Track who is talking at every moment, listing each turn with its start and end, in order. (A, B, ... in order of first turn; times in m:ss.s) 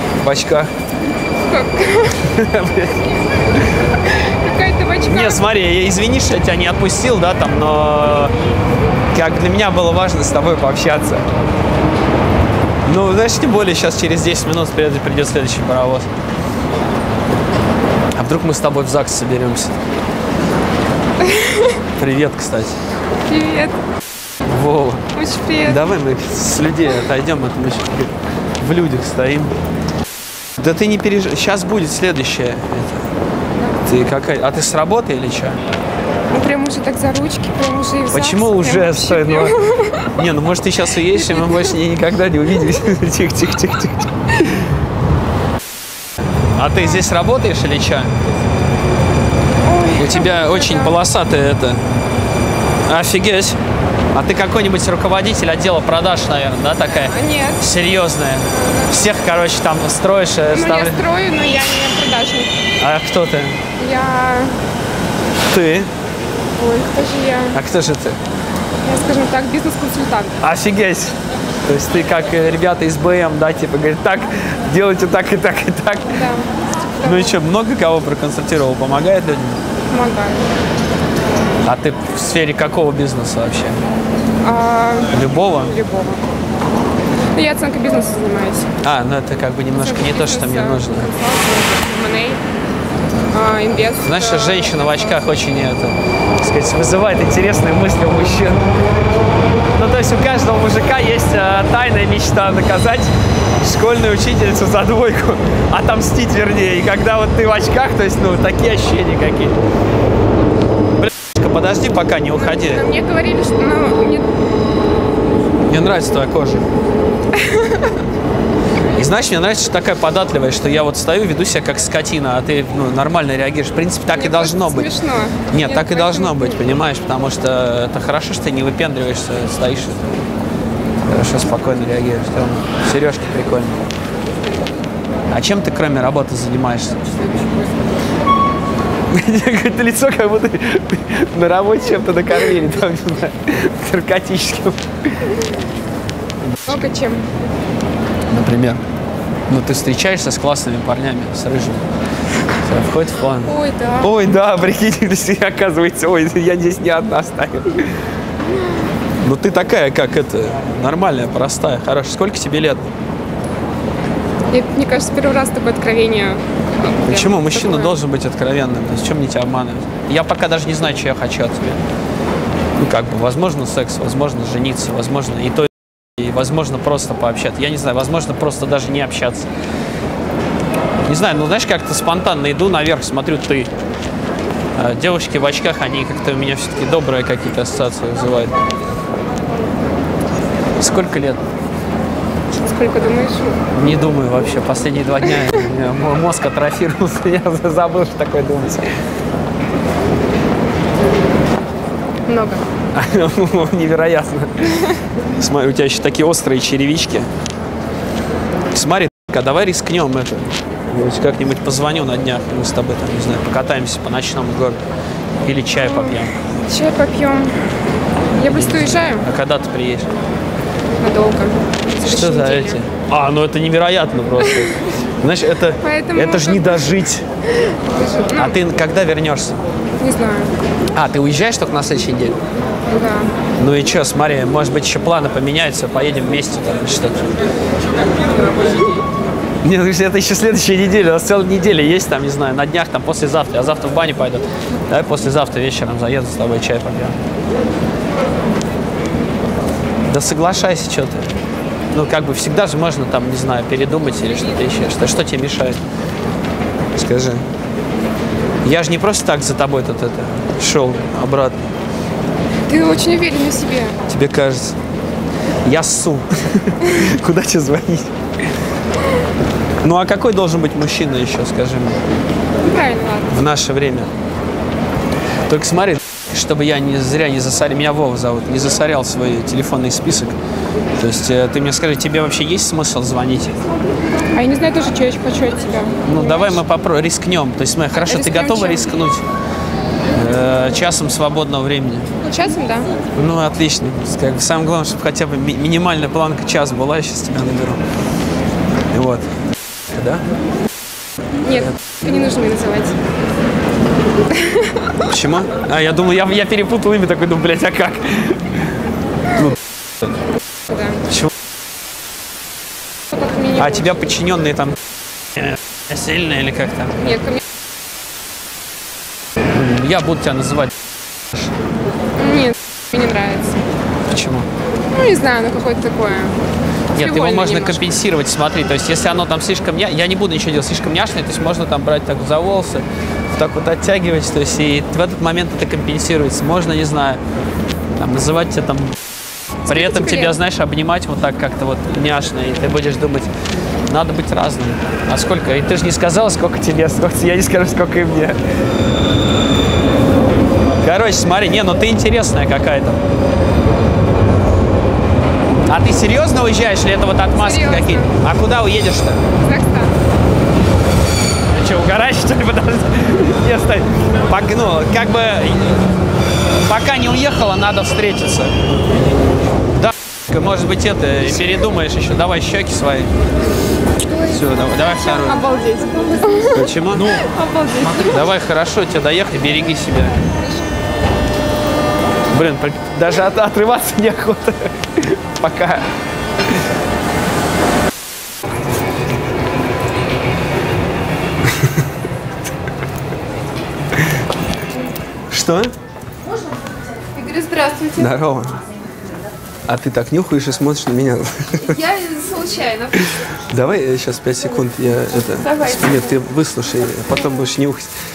0:00.2-0:00.7 A
0:01.5-0:02.2 B
0:02.3-0:03.1 A
0:04.1-0:05.5 B
0:05.0-0:08.3 A
0:09.1-0:11.3 A
0:12.8-0:16.1 A
0:18.1-0:19.8 A
0:21.2-0:21.8 B
0:22.0-0:22.8 A
0:23.3-0:23.8 B
0:24.4-0:25.1 A
0:25.1-0:26.0 B
0:25.6-0:29.6 A
0:30.6-0:33.1 A
0:33.8-0:35.6 A
0:36.3-0:40.3 B
0:38.1-0:39.6 A
0:40.2-0:44.1 A
0:41.0-0:41.8 B
0:46.6-0:48.2 A
0:49.6-0:51.0 B
0:50.0-0:51.9 A
0:52.9-0:53.6 A
0:54.1-1:01.0 A
0:56.9-0:57.6 B
0:58.5-0:59.0 B
1:00.5-1:02.5 B
1:02.8-1:03.6 A
1:03.8-1:04.6 B
1:05.4-1:05.9 A
1:06.6-1:07.6 B
1:07.5-1:08.2 A
1:08.8-1:10.4 B
1:10.4-1:16.2 A
1:16.1-1:17.4 B
1:17.0-1:19.7 A
1:19.9-1:20.5 B
1:21.6-1:23.8 A
1:24.4-1:26.2 B
1:25.1-1:25.8 A
1:27.3-1:28.7 B
1:28.8-1:31.2 A
1:29.7-1:32.4 B
1:33.3-1:35.3 B
1:34.0-1:38.7 A
1:39.7-1:49.6 A
1:51.0-1:52.9 A
1:52.3-1:54.3 B
1:55.7-1:56.7 A
1:57.4-1:58.0 B
1:58.9-2:04.9 A
2:04.1-2:06.7 B
2:05.5-2:10.3 A
2:11.0-2:13.8 A
2:15.3-2:17.0 A
2:19.1-2:24.8 A
2:26.4-2:26.9 A
2:26.7-2:27.3 B
2:28.3-2:28.8 A
2:29.5-2:31.9 A
2:32.6-2:38.0 A
2:33.4-2:34.2 B
2:39.2-2:42.9 A
2:44.5-2:48.0 B
2:47.1-2:51.9 A
2:52.8-2:59.5 A
3:01.1-3:03.7 A
3:04.8-3:08.5 A
3:10.8-3:11.4 A
3:12.5-3:13.6 B
3:13.7-3:18.8 A
3:15.2-3:15.6 B
3:22.3-3:22.7 B
3:22.9-3:24.7 A
3:25.4-3:27.3 A
3:28.7-3:34.8 A
3:35.4-3:36.4 A
3:35.7-3:37.8 B
3:38.4-3:39.3 B
3:38.5-3:40.1 A
3:41.0-3:42.8 B
3:42.0-3:47.3 A
3:44.4-3:44.8 B
3:45.8-3:47.0 B
3:47.6-3:48.6 B
3:48.4-3:49.6 A
3:50.0-3:50.5 B
3:50.9-3:52.4 A
3:52.9-3:53.3 B
3:53.6-3:57.3 A
3:59.6-4:07.2 A
4:10.1-4:11.3 A
4:11.9-4:15.8 A
4:17.0-4:17.5 A
4:18.6-4:21.7 A
4:22.7-4:24.0 B
4:24.1-4:24.8 A
4:25.6-4:28.1 A
4:29.8-4:32.0 A
4:32.6-4:33.4 B
4:33.3-4:34.1 A
4:35.5-4:40.4 A
4:41.0-4:43.5 A
4:44.3-4:46.6 B
4:46.0-4:49.2 A
4:47.9-4:49.1 B
4:50.1-4:52.1 A
4:52.3-4:52.9 B
4:53.1-4:57.8 A
4:58.9-4:59.4 A
4:59.9-5:00.3 A
5:01.4-5:03.0 B
5:04.3-5:04.7 B
5:05.0-5:08.7 A
5:10.7-5:11.1 B
5:11.1-5:11.3 A
5:13.1-5:14.1 B
5:13.6-5:14.8 A
5:15.3-5:17.2 A
5:17.0-5:17.4 B
5:19.5-5:20.8 A
5:22.2-5:23.6 B
5:24.1-5:24.5 A
5:24.9-5:26.4 B
5:26.9-5:28.0 B
5:26.9-5:37.2 A
5:38.0-5:39.0 A
5:39.7-5:40.4 B
5:39.7-5:43.3 A
5:43.8-5:48.4 A
5:50.8-5:53.0 A
5:55.7-5:59.2 A
5:57.3-5:58.1 B
5:59.4-5:59.9 B
6:01.5-6:05.9 A
6:06.5-6:08.7 A
6:09.6-6:13.1 A
6:14.3-6:15.5 A
6:14.4-6:18.4 B
6:16.6-6:20.3 A
6:22.3-6:25.9 A
6:35.3-6:35.7 A
6:37.1-6:38.2 C
6:38.0-6:38.6 A
6:39.7-6:41.8 A
6:41.6-6:43.1 C
6:43.5-6:47.9 A
6:45.1-6:46.3 C